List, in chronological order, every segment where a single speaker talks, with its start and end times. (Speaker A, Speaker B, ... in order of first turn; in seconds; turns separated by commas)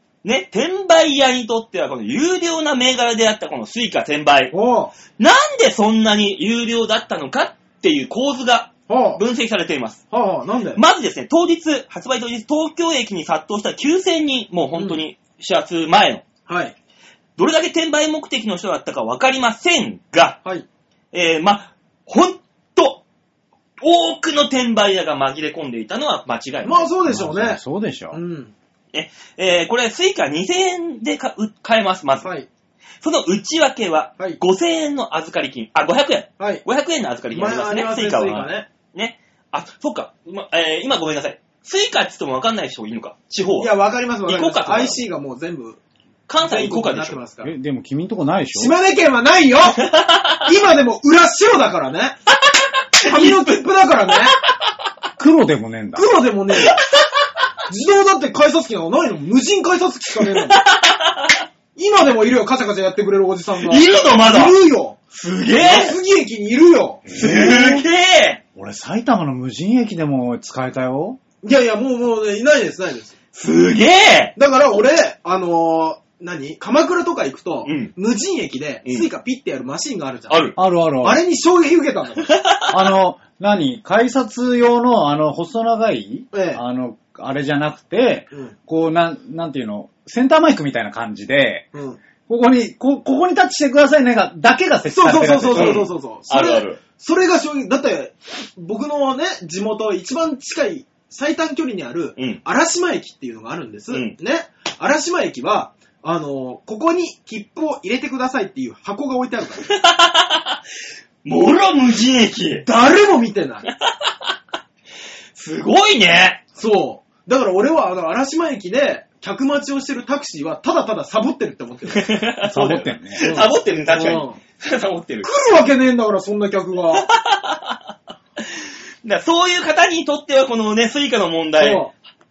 Speaker A: 0.2-4.5, Speaker B: 4.5-4.9, Speaker A: 5.2-10.0, Speaker B: 8.9-9.2, Speaker B: 10.1-10.8, Speaker A: 10.8-16.2, Speaker B: 16.5-16.7, Speaker A: 17.4-20.4, Speaker A: 21.1-23.0, Speaker A: 23.8-26.9, Speaker B: 26.6-27.6, Speaker C: 27.1-28.2, Speaker B: 28.1-28.5, Speaker A: 28.9-32.3, Speaker A: 33.0-43.7, Speaker B: 37.3-38.7, Speaker B: 43.6-45.8, Speaker A: 44.3-45.0, Speaker A: 46.3-47.2, Speaker B: 46.4-47.5, Speaker C: 47.4-48.7, Speaker B: 48.5-52.1, Speaker A: 49.9-50.4, Speaker A: 53.0-53.6, Speaker B: 53.0-54.3, Speaker C: 55.2-56.1, Speaker B: 55.9-56.8, Speaker A: 56.6-57.0, Speaker B: 57.7-60.6, Speaker A: 60.3-61.4, Speaker B: 61.8-65.0, Speaker A: 63.6-64.6, Speaker A: 65.1-66.0, Speaker B: 65.5-67.8, Speaker A: 67.1-68.4, Speaker C: 68.5-71.2, Speaker B: 71.4-73.1, Speaker A: 73.3-74.3, Speaker B: 74.3-82.4, Speaker A: 77.6-77.9, Speaker A: 80.3-80.5, Speaker C: 80.6-81.2, Speaker A: 82.3-82.7, Speaker C: 82.7-91.7, Speaker B: 86.3-86.6, Speaker B: 91.7-92.0, Speaker C: 92.3-95.8, Speaker B: 94.9-109.7, Speaker A: 95.5-96.8, Speaker A: 109.7-110.6, Speaker A: 111.2-112.7, Speaker B: 112.6-113.7, Speaker A: 115.3-116.4, Speaker B: 116.5-122.2, Speaker A: 121.9-125.3, Speaker C: 122.4-123.2, Speaker B: 123.2-124.4, Speaker B: 125.2-127.1, Speaker A: 127.1-127.8, Speaker A: 129.0-131.9, Speaker B: 131.6-131.9